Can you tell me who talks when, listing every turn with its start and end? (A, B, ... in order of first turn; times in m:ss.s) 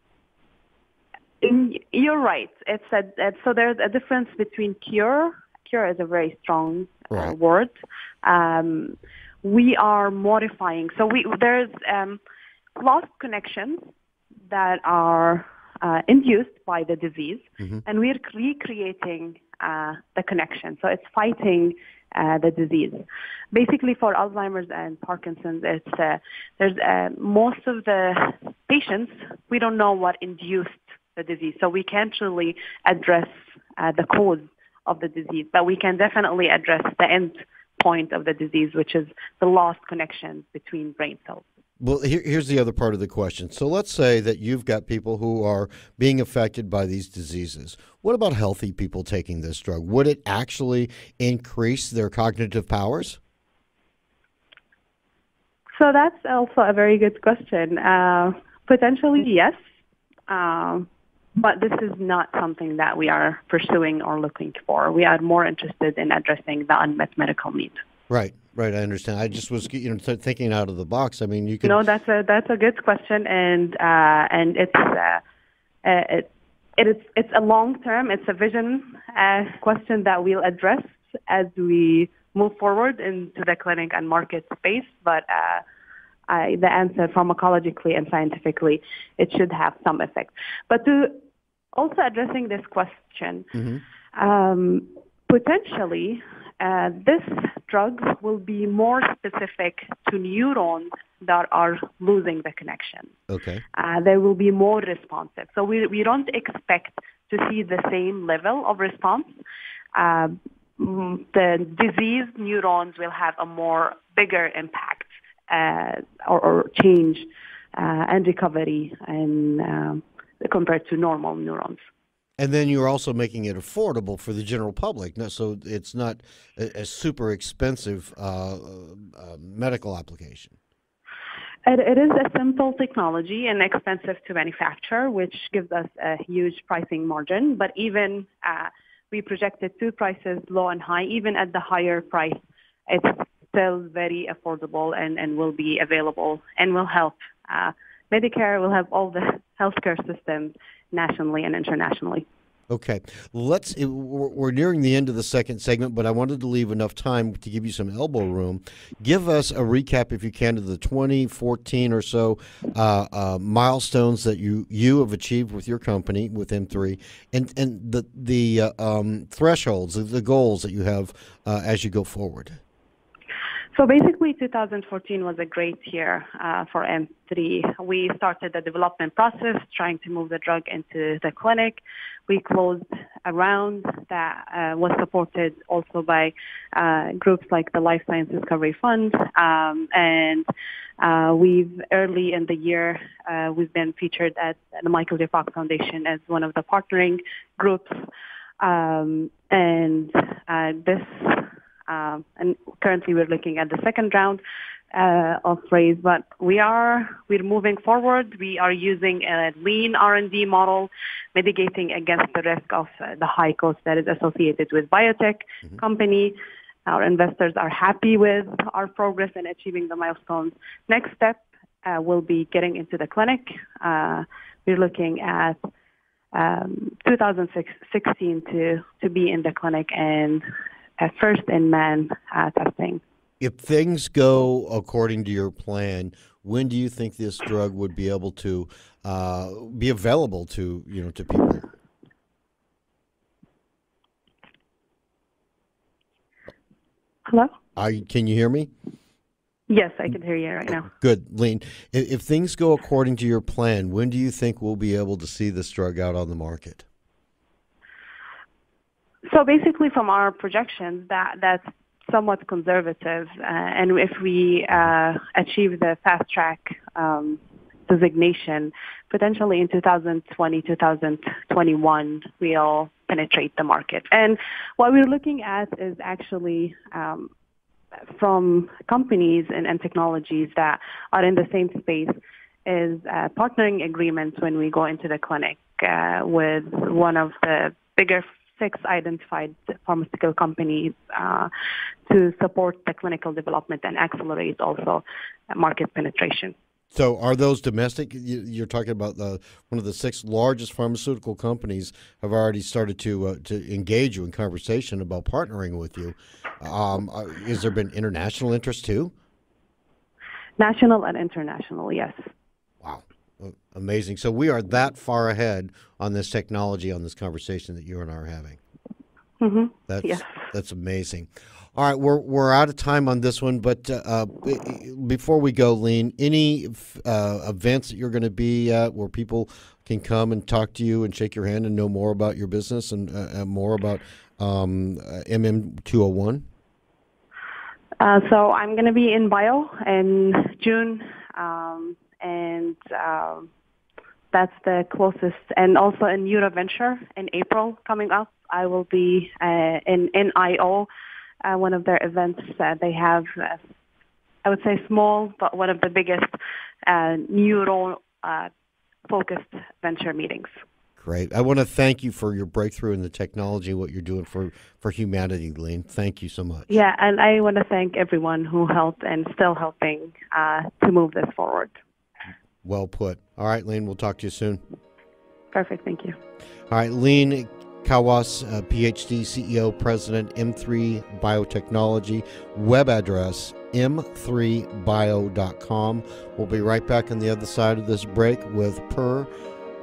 0:01.4-0:12.2 A
0:12.8-0:13.9 A
0:14.5-0:41.5 A
0:41.8-0:53.2 B
0:55.8-0:59.6 A
1:00.3-1:07.8 A
1:08.1-1:11.8 B
1:11.6-1:15.2 A
1:15.8-1:25.6 A
1:26.3-1:33.5 A
1:33.5-1:33.8 B
1:34.1-1:43.1 A
1:43.3-1:43.6 B
1:43.7-1:49.4 A
1:50.0-2:01.8 A
2:02.4-2:10.6 B
2:11.7-2:32.3 A
2:32.7-2:52.6 B
2:53.7-3:10.5 A
3:11.0-3:18.1 A
3:18.6-3:24.4 A
3:24.9-3:45.6 A
3:46.3-3:50.5 A
3:51.0-3:53.0 A
3:53.4-4:01.7 B
4:07.3-4:07.5 A
4:07.8-4:08.7 B
4:09.7-4:10.9 A
4:10.7-4:16.8 B
4:19.3-4:37.3 A
4:38.0-4:51.5 A
4:52.1-4:56.6 A
4:56.9-5:09.1 B
5:10.6-5:12.3 A
5:12.8-5:18.6 B
5:19.4-5:20.3 A
5:19.9-5:36.4 B
5:38.0-5:43.5 A
5:44.3-5:50.9 A
5:51.4-5:53.6 A
5:54.4-5:56.3 A
5:56.9-5:58.5 A
5:59.1-6:00.6 A
6:01.0-6:06.7 B
6:06.7-6:11.8 A
6:12.6-6:14.6 B
6:15.5-6:16.2 A
6:16.7-6:29.3 B